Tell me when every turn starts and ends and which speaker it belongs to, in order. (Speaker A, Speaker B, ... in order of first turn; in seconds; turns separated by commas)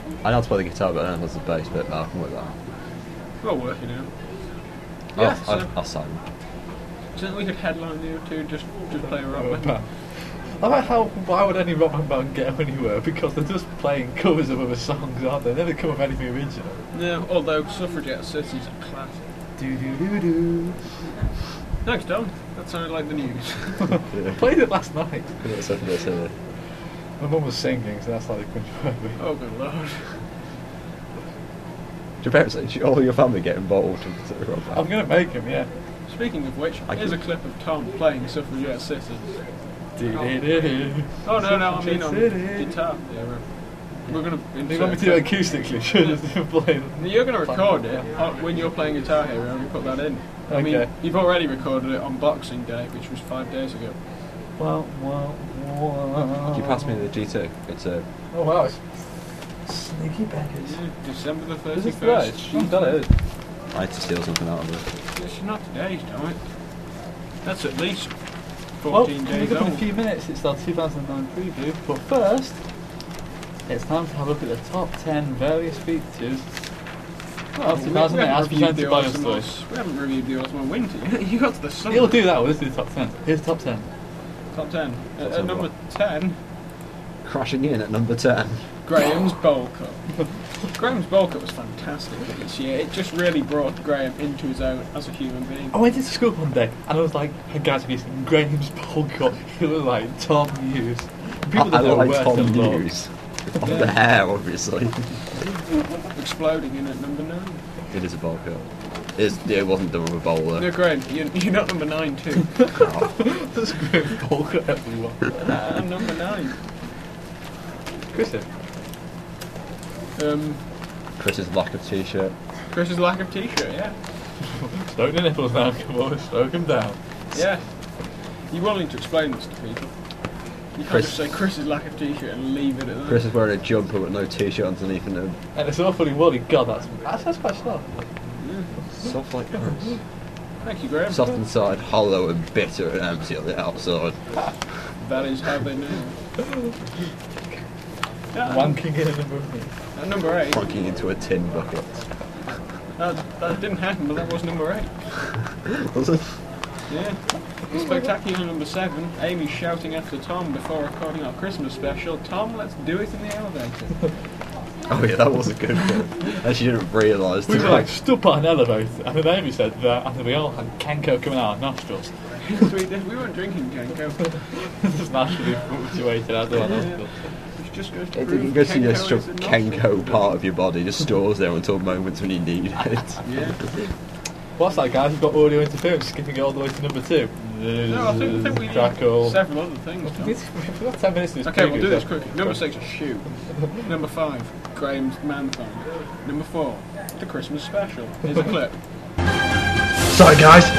Speaker A: 0.2-2.5, Speaker B: 3.4-4.1, Speaker B: 5.2-5.7, Speaker A: 5.2-6.2, Speaker B: 7.1-9.8, Speaker C: 9.0-9.9, Speaker C: 10.6-16.8, Speaker B: 16.9-19.2, Speaker C: 19.6-20.8, Speaker B: 21.8-23.9, Speaker C: 24.0-25.3, Speaker A: 24.1-24.4, Speaker A: 25.4-26.3, Speaker C: 27.2-29.2, Speaker B: 29.2-30.0, Speaker A: 32.2-34.8, Speaker C: 34.7-35.7, Speaker B: 36.1-39.3, Speaker A: 36.9-37.2, Speaker C: 40.0-42.7, Speaker B: 41.2-43.4, Speaker B: 44.1-45.4, Speaker C: 44.6-48.0, Speaker B: 47.0-54.0, Speaker C: 50.5-50.9, Speaker C: 54.6-57.0, Speaker A: 56.5-58.0, Speaker C: 58.3-59.0, Speaker C: 59.6-60.8, Speaker B: 60.6-63.0, Speaker C: 61.7-63.1, Speaker A: 63.7-64.8, Speaker B: 65.2-66.4, Speaker B: 67.4-68.1, Speaker B: 68.8-69.8, Speaker C: 68.9-72.6, Speaker C: 73.7-76.5, Speaker B: 77.5-82.2, Speaker C: 77.6-79.4, Speaker C: 81.9-83.9, Speaker B: 84.5-86.4, Speaker A: 85.2-85.7, Speaker A: 87.2-88.6, Speaker B: 88.8-90.0, Speaker B: 90.7-95.7, Speaker C: 95.7-102.8, Speaker A: 101.5-105.1, Speaker B: 103.6-103.9, Speaker B: 106.1-107.6, Speaker A: 107.9-108.6, Speaker A: 109.2-110.7, Speaker B: 110.6-112.6, Speaker A: 112.7-113.1, Speaker C: 113.2-115.3, Speaker B: 115.4-116.5, Speaker C: 118.1-118.5, Speaker B: 120.2-120.6, Speaker A: 121.2-122.3, Speaker B: 122.7-123.9, Speaker C: 124.8-127.0, Speaker B: 127.3-127.6, Speaker B: 128.5-129.9, Speaker B: 130.7-133.2, Speaker A: 130.8-131.2, Speaker A: 133.1-135.4, Speaker C: 135.5-137.9, Speaker B: 138.4-138.7, Speaker A: 138.9-139.9, Speaker B: 140.6-141.3, Speaker A: 141.1-144.2, Speaker B: 145.0-146.2, Speaker B: 148.3-148.8, Speaker C: 148.4-149.7, Speaker B: 149.9-150.6, Speaker A: 150.5-152.1, Speaker B: 153.0-154.9, Speaker A: 155.7-156.3, Speaker B: 156.9-164.1, Speaker A: 164.9-167.9, Speaker C: 167.5-172.1, Speaker B: 172.5-174.4, Speaker C: 174.7-177.1, Speaker B: 176.6-177.0, Speaker B: 177.5-180.3, Speaker A: 178.1-183.2, Speaker B: 183.2-183.6, Speaker C: 184.6-189.4, Speaker B: 187.9-190.3, Speaker C: 190.1-192.6, Speaker B: 191.4-198.7